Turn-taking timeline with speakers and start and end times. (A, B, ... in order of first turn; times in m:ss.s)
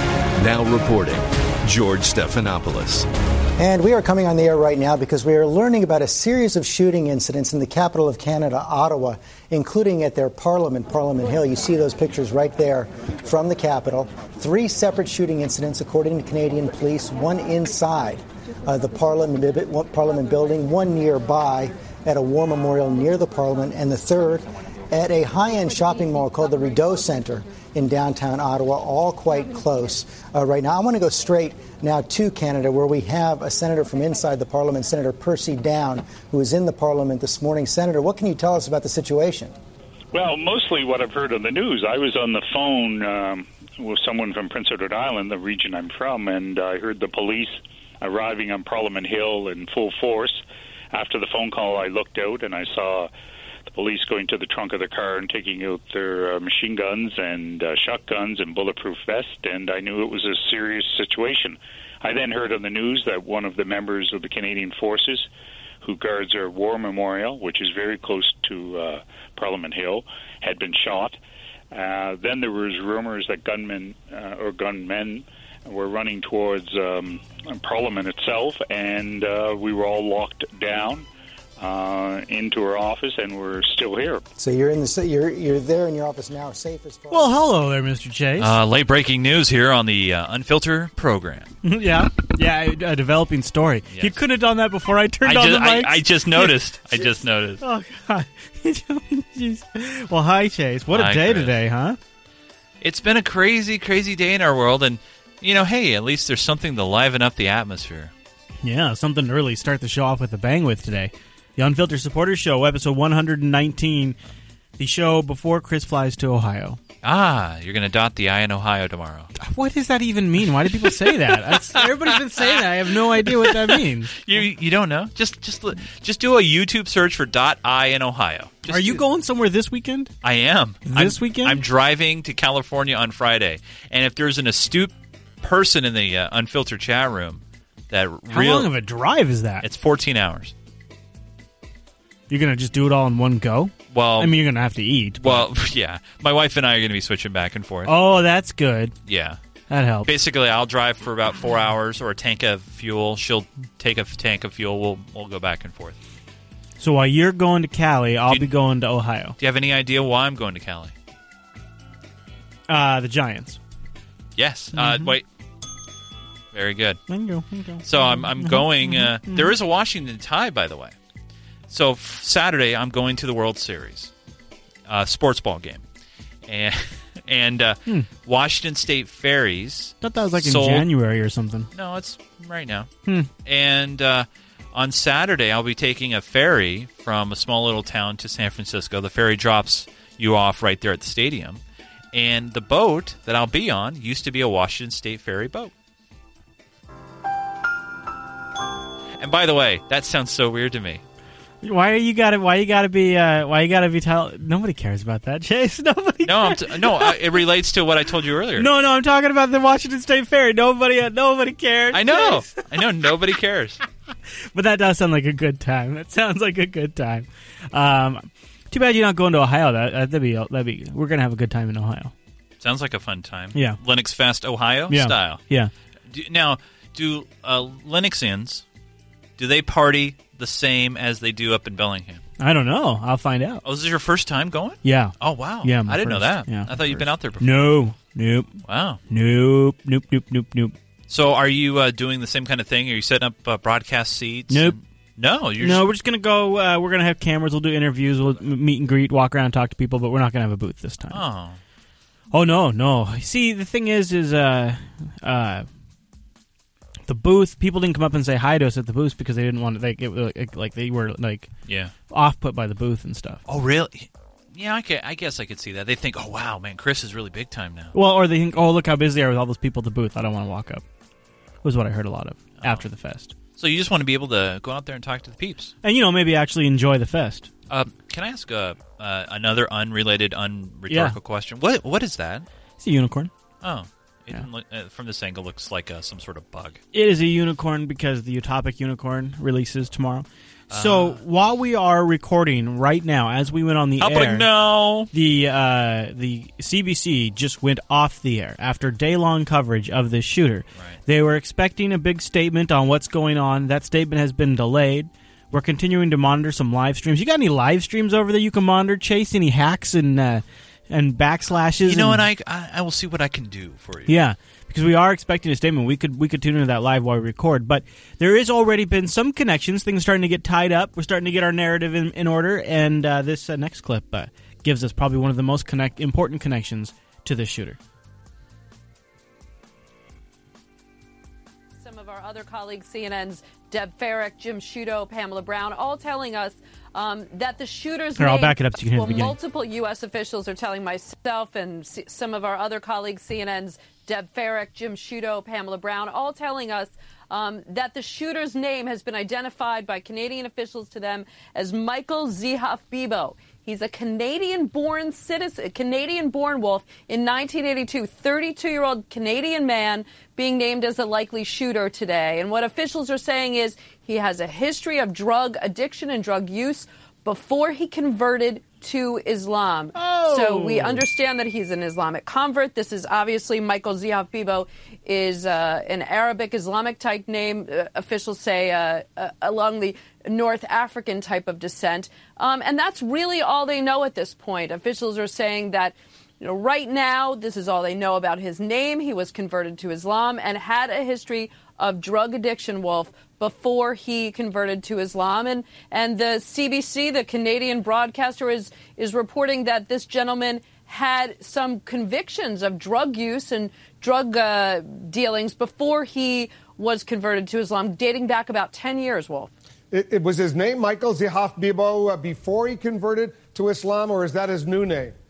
0:00.4-0:03.1 A
0:03.6-0:39.5 B
0:40.1-0:53.1 C
0:53.7-1:05.3 C
1:05.8-1:11.2 C
1:11.7-1:21.1 C
1:21.6-1:24.2 C
1:24.4-1:27.5 B
1:27.1-1:28.6 D
1:28.4-1:31.5 E
1:31.6-1:42.0 D
1:35.3-1:37.6 E
1:40.9-1:41.5 E
1:42.8-1:48.1 E
1:48.6-1:54.2 D
1:54.8-1:56.8 D
1:57.0-1:59.3 E
1:59.4-2:04.4 D
2:00.8-2:02.6 E
2:03.2-2:09.0 E
2:08.7-2:10.1 D
2:10.2-2:18.7 E
2:10.9-2:11.6 D
2:18.3-2:19.6 D
2:19.6-2:20.5 E
2:22.3-2:25.5 D
2:23.9-2:24.3 E
2:25.2-2:27.9 E
2:27.9-2:29.0 D
2:29.1-2:29.4 E
2:29.7-2:30.1 D
2:30.1-2:36.0 E
2:36.8-2:39.4 D
2:39.4-2:40.9 E
2:42.7-2:43.6 D
2:44.4-2:45.2 E
2:44.8-2:45.2 D
2:46.5-2:47.0 E
2:47.1-2:49.5 D
2:47.8-2:51.0 E
2:51.7-2:54.1 E
2:54.9-2:55.8 E
2:56.5-3:00.9 E
3:00.0-3:01.7 D
3:01.7-3:02.9 E
3:03.4-3:11.6 E
3:12.1-3:15.7 E
3:19.2-3:21.0 E
3:21.6-3:27.2 D
3:26.2-3:28.7 E
3:28.6-3:32.6 D
3:31.9-3:33.8 E
3:34.5-3:42.1 D
3:42.6-3:45.4 E
3:43.5-3:43.8 D
3:44.9-3:45.7 D
3:46.1-3:48.6 E
3:49.4-3:52.2 E
3:52.4-3:53.6 D
3:53.6-3:57.8 E
3:54.8-3:58.6 D
3:58.7-3:59.0 E
3:59.1-4:00.8 D
4:01.1-4:05.9 E
4:04.5-4:04.8 D
4:05.6-4:11.2 D
4:11.1-4:11.6 E
4:12.3-4:15.7 D
4:17.1-4:21.5 D
4:21.7-4:21.9 E
4:22.1-4:23.4 D
4:23.5-4:27.9 E
4:27.9-4:30.8 D
4:31.6-4:33.3 D
4:33.6-4:35.7 E
4:35.8-4:37.5 D
4:37.7-4:42.5 E
4:40.9-4:41.2 D
4:42.8-4:43.3 D
4:43.6-4:46.8 E
4:46.9-4:54.5 D
4:50.7-4:51.2 E
4:54.0-4:55.1 E
4:55.1-5:12.3 D
5:00.8-5:01.0 E
5:11.8-5:14.2 E
5:14.1-5:27.8 D
5:31.8-6:49.5 F
5:38.2-5:39.4 D
6:10.0-6:11.0 D
6:49.9-6:55.2 G